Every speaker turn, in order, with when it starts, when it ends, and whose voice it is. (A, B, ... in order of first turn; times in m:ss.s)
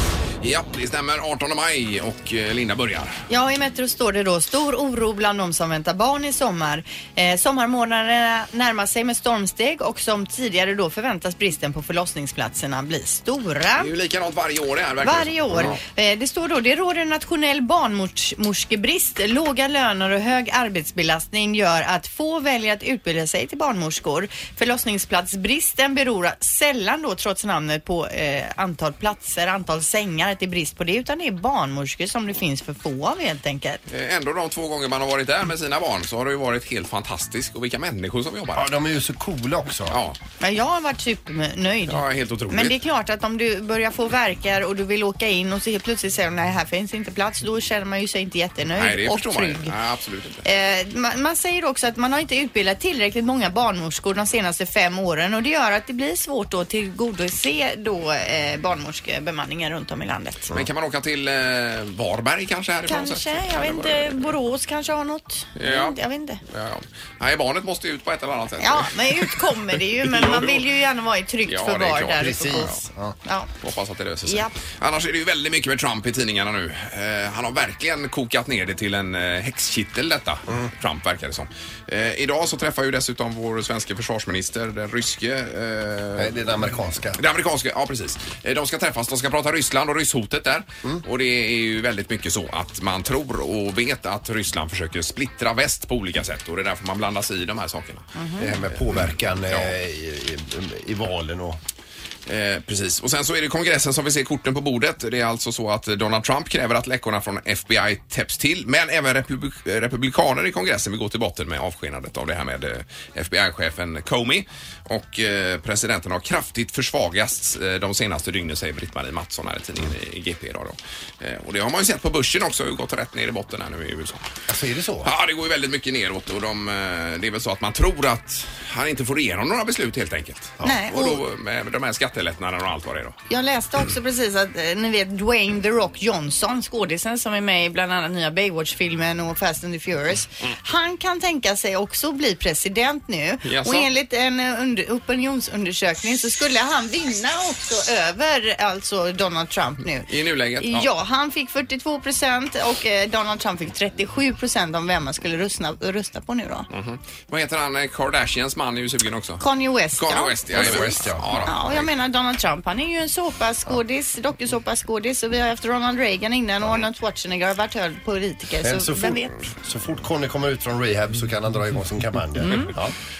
0:00.4-0:03.2 A
0:03.3-0:13.9 B
0:13.8-0:15.8 A
0:15.0-0:33.8 B
0:33.9-0:38.7 A
0:38.5-0:40.0 C
0:39.9-0:40.2 A
0:40.4-0:49.7 B
0:41.9-0:42.8 A
0:48.8-0:50.4 A
0:50.4-1:00.5 B
1:00.5-1:04.3 A
1:02.9-1:06.4 B
1:05.6-1:06.0 A
1:06.5-1:10.6 A
1:08.6-1:13.5 B
1:11.5-1:12.8 A
1:12.2-1:13.2 C
1:13.6-1:26.4 A
1:14.3-1:14.5 B
1:26.2-1:27.2 C
1:27.2-1:38.1 A
1:38.2-1:38.5 B
1:38.4-1:41.6 C
1:38.7-1:39.7 A
1:42.3-2:04.3 A
2:04.5-2:05.1 C
2:05.0-2:13.2 A
2:10.6-2:11.2 B
2:13.3-2:30.1 B
2:23.4-2:23.9 A
2:30.1-2:30.9 A
2:30.6-2:36.7 B
2:36.7-2:39.4 A
2:39.4-2:49.3 B
2:40.0-2:41.9 A
2:40.5-2:41.4 C
2:48.6-2:52.9 C